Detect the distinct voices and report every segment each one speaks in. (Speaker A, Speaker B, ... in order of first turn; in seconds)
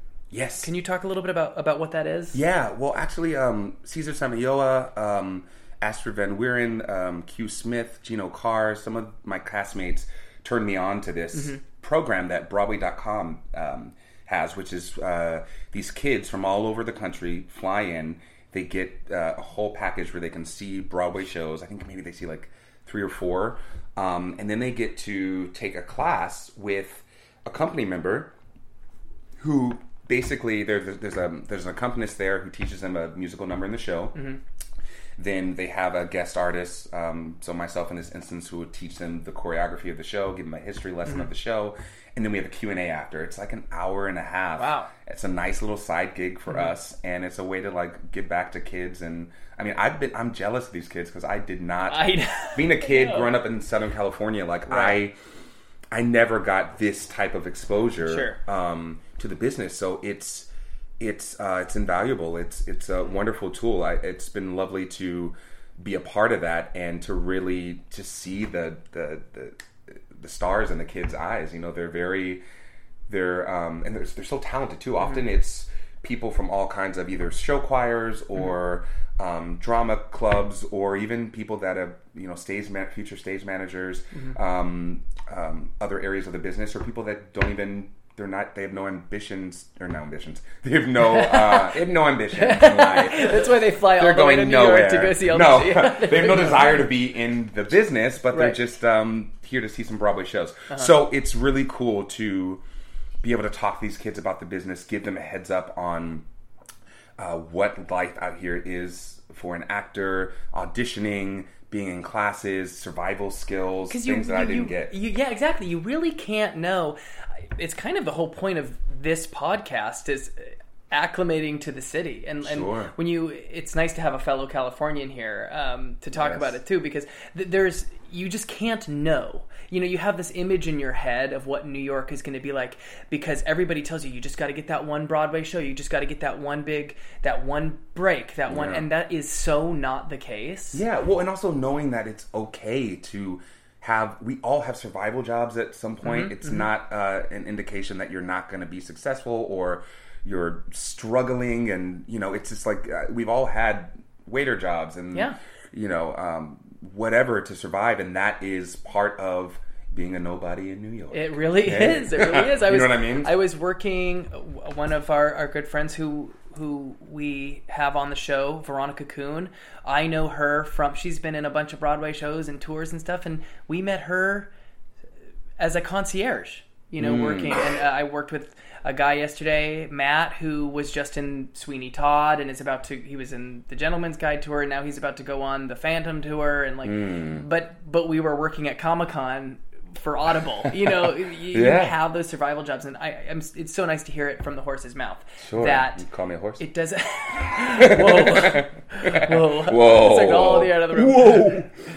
Speaker A: 0.3-0.7, 2.3-28.3, 29.4-34.3, 35.2-55.1, 55.9-60.5, 61.0-69.6, 70.1-72.4, 73.1-102.6, 103.2-106.2, 107.2-114.9, 122.4-122.9, 126.2-126.5, 138.5-138.9, 140.7-163.3, 177.0-177.7, 186.8-187.4, 191.4-192.0, 195.4-196.6, 197.6-201.7
Speaker B: 0.6-2.4, 11.3-11.6, 44.5-44.9, 51.9-53.3, 54.7-55.0, 58.0-58.4, 91.0-91.8, 92.3-96.9, 98.3-98.6, 113.9-117.0, 117.5-140.8, 146.0-146.7, 155.1-155.4, 161.1-174.5, 175.6-196.0, 196.6-201.7